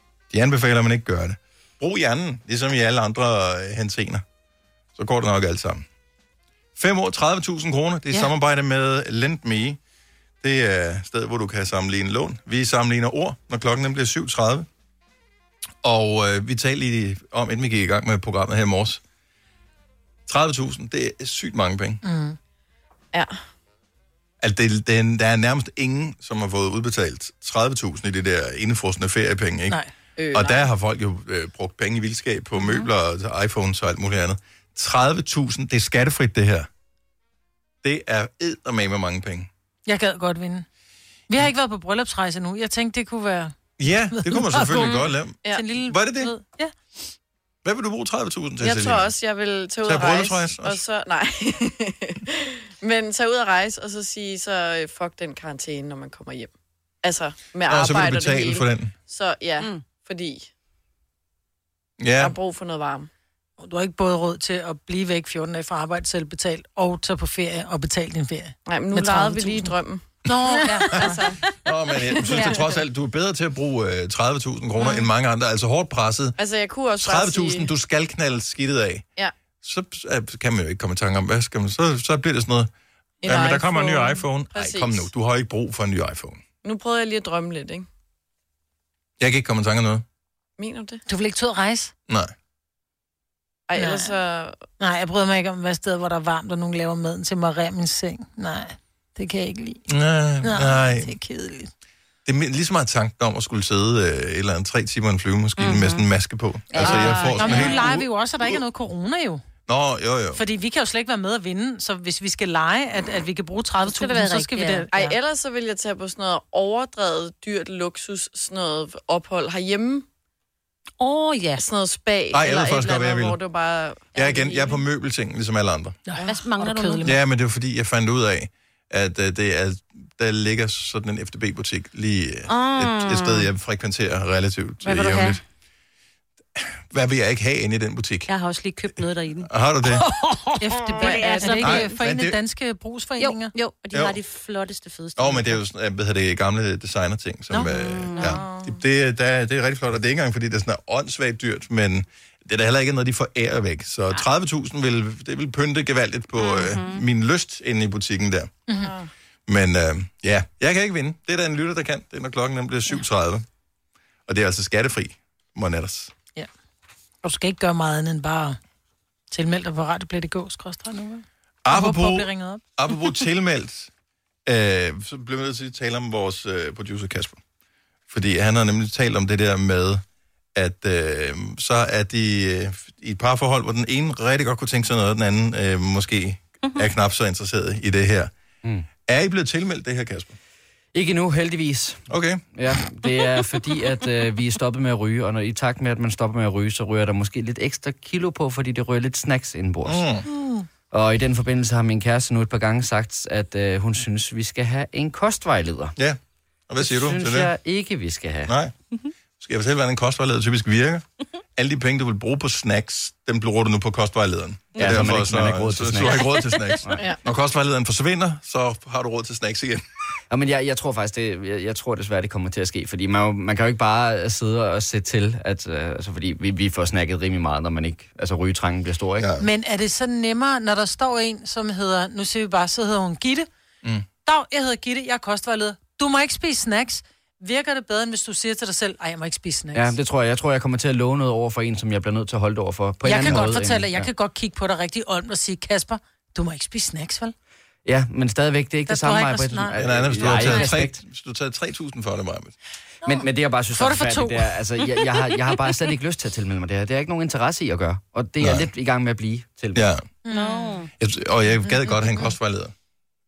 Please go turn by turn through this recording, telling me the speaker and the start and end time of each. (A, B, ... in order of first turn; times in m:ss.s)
0:00.3-0:04.2 A
0:05.0-0:05.8 A
0:06.8-0:09.8 A
0:10.4-0:14.7 A
0:15.8-0:19.0 A
0:20.3-0:22.0 A
0:22.0-0:22.4 B
0:23.1-0:23.4 C
0:24.4-0:29.8 A
0:30.2-0:30.6 C
0:30.3-0:36.7 A
0:37.8-0:39.5 A
0:39.9-0:40.7 B
0:41.3-0:43.5 B
0:43.8-0:46.3 A
0:44.1-0:46.7 B
0:47.6-0:49.1 A
0:48.6-0:56.5 C
0:49.8-0:50.8 A
0:57.0-1:00.5 C
0:57.7-0:58.9 A
1:02.0-1:02.4 A
1:02.2-1:03.1 C
1:03.6-1:11.2 B
1:08.7-1:12.8 C
1:11.0-1:16.4 A
1:16.4-1:17.7 C
1:17.0-1:19.0 A
1:19.6-1:22.7 A
1:23.2-1:25.1 C
1:23.2-1:26.4 A
1:26.6-1:27.9 C
1:29.2-1:30.0 A
1:30.6-1:31.0 C
1:31.1-1:31.9 B
1:32.1-1:32.3 A
1:33.7-1:34.6 C
1:33.8-1:34.1 B
1:34.8-1:39.8 B
1:39.9-1:41.1 A
1:40.4-1:41.7 B
1:42.3-1:48.6 A
1:45.6-1:46.1 D
1:46.7-1:47.8 D
1:46.8-1:49.4 B
1:46.9-1:47.5 C
1:49.7-1:50.4 A
1:50.3-1:55.2 B
1:53.8-1:54.9 D
1:54.9-2:00.1 C
2:01.0-2:01.6 D
2:01.6-2:04.8 C
2:02.3-2:03.4 A
2:04.1-2:06.0 A
2:06.1-2:07.2 B
2:06.2-2:07.2 D
2:07.0-2:15.4 A
2:12.5-2:13.5 D
2:14.8-2:15.4 D
2:16.6-2:18.3 A
2:18.3-2:21.9 D
2:19.4-2:20.1 A
2:20.1-2:23.5 B
2:21.0-2:21.8 C
2:21.6-2:22.4 A
2:23.2-2:25.6 D
2:23.9-2:24.2 A
2:25.2-2:38.6 A
2:27.6-2:28.4 D
2:28.2-2:28.8 C
2:36.4-2:37.0 D
2:38.7-2:39.1 C
2:39.5-2:43.4 A
2:44.3-2:46.1 A
2:47.2-2:48.6 B
2:49.3-2:52.6 B
2:51.6-2:53.9 A
2:54.4-2:57.4 A
2:58.1-3:00.0 A
3:00.6-3:08.3 A
3:09.0-3:10.4 A
3:10.9-3:20.0 E
3:12.1-3:12.5 A
3:19.8-3:20.2 A
3:20.3-3:20.6 B
3:20.9-3:26.0 E
3:26.7-3:27.5 A
3:26.8-3:28.5 E
3:28.5-3:28.7 A
3:29.4-3:31.0 A
3:31.6-3:39.8 A
3:34.8-3:36.3 E
3:40.3-3:49.3 E
3:49.2-3:49.5 A
3:49.4-3:53.5 B
3:54.2-4:00.0 B
3:59.7-4:04.1 E
4:03.0-4:07.3 B
4:07.8-4:11.0 E
4:08.9-4:10.7 B
4:09.8-4:12.6 A
4:13.0-4:14.6 B
4:13.0-4:19.9 E
4:18.4-4:18.7 A
4:19.8-4:20.0 A
4:20.2-4:20.8 B
4:20.3-4:20.9 D
4:21.0-4:22.7 A